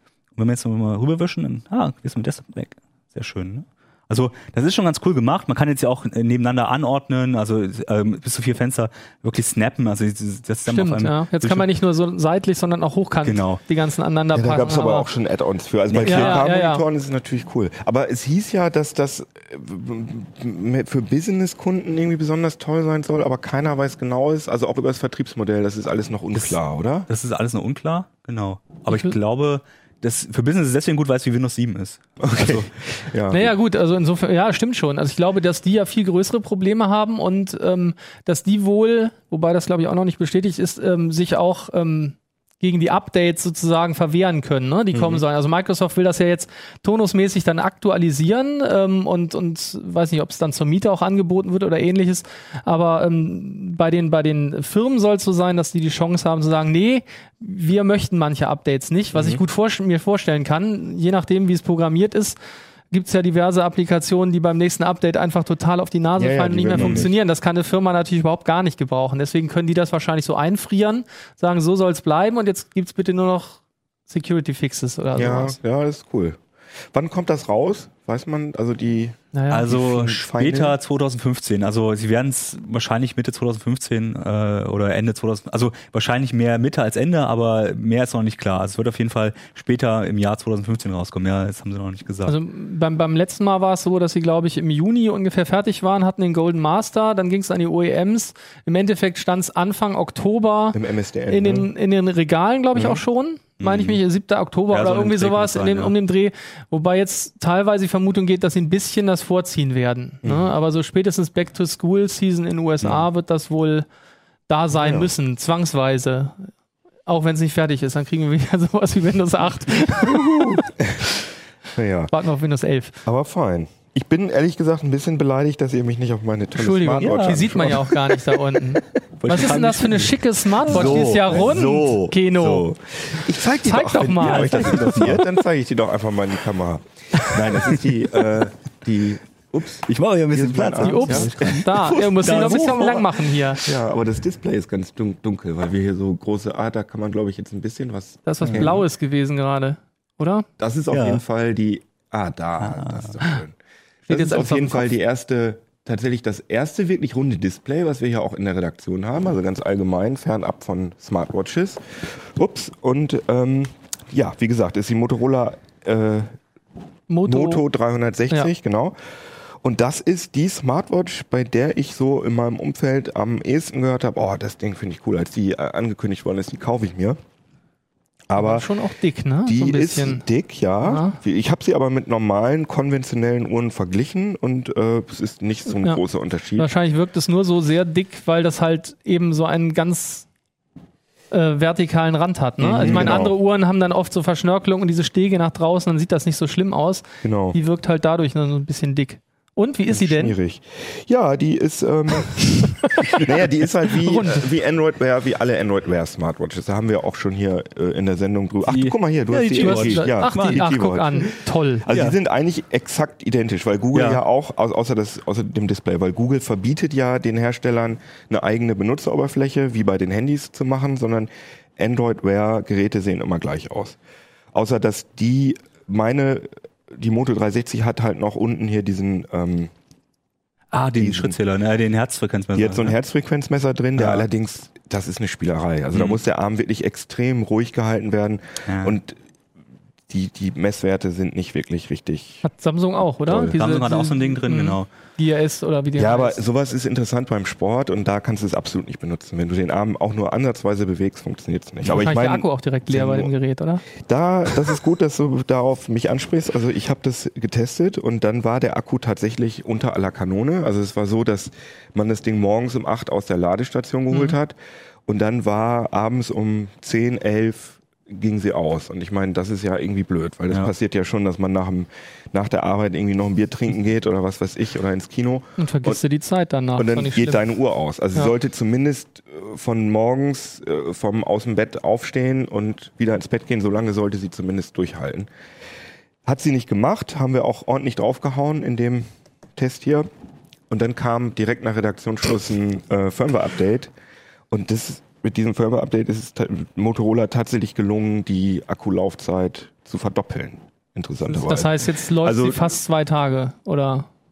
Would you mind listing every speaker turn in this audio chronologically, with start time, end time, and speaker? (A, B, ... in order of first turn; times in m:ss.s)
0:00.4-0:11.7 A
0:10.7-0:15.1 B
0:13.2-0:13.6 A
0:14.3-0:27.1 C
0:15.9-0:16.4 A
0:16.0-0:16.8 B
0:27.1-0:32.7 A
0:32.2-0:33.5 C
0:33.3-1:02.4 B
0:44.9-0:45.2 C
0:59.1-0:59.4 C
1:02.9-1:15.6 B
1:06.2-1:07.1 C
1:06.7-1:07.1 A
1:15.2-1:16.4 C
1:16.9-1:20.8 C
1:19.3-1:19.7 B
1:19.5-1:32.3 A
1:32.2-1:40.8 B
1:40.7-1:41.7 C
1:41.3-1:53.8 B
1:43.6-1:44.0 A
1:44.7-1:45.9 A
1:50.2-1:50.5 C
1:54.5-1:56.5 B
1:54.8-1:55.1 C
1:57.0-2:00.6 B
2:00.1-2:01.1 C
2:01.7-2:02.1 C
2:02.1-2:03.0 B
2:03.0-2:08.2 C
2:06.5-2:12.7 B
2:07.0-2:07.5 A
2:09.2-2:11.5 A
2:10.7-2:22.9 C
2:13.4-2:15.2 B
2:13.9-2:15.2 A
2:17.8-2:18.4 A
2:19.8-2:23.3 A
2:20.8-2:23.6 B
2:23.6-2:28.8 C
2:28.2-2:30.4 B
2:28.4-2:28.7 A
2:30.6-2:46.4 C
2:30.9-2:31.2 A
2:32.6-2:33.2 A
2:34.1-2:34.9 B
2:47.1-2:47.6 B
2:47.2-2:49.0 C
2:49.6-2:57.2 C
2:58.3-2:58.7 C
2:58.4-3:00.2 B
2:59.4-3:06.7 C
3:00.8-3:01.2 B
3:06.6-3:10.2 B
3:11.3-3:20.4 B
3:12.6-3:13.3 C
3:12.8-3:13.1 A
3:17.2-3:17.6 C
3:19.9-3:44.0 C
3:22.8-3:23.2 B
3:24.0-3:24.5 B
3:28.7-3:30.7 A
3:29.6-3:31.8 B
3:31.9-3:32.2 A
3:33.9-3:34.2 A
3:44.5-3:49.7 C
3:50.7-3:53.0 A
3:51.0-3:51.4 C
3:52.5-3:59.2 C
3:54.0-3:54.2 A
3:58.6-3:58.9 A
4:00.1-4:02.4 C
4:02.4-4:06.4 B
4:03.2-4:03.5 C
4:03.6-4:04.9 A
4:06.0-4:13.3 C
4:11.8-4:13.8 B
4:14.0-4:24.6 C
4:24.1-4:24.4 B
4:25.1-4:36.0 C
4:35.6-4:37.4 B
4:36.8-4:45.3 C
4:46.2-4:50.1 C
4:50.7-4:53.9 C
4:54.5-5:02.7 C
5:01.3-5:04.1 B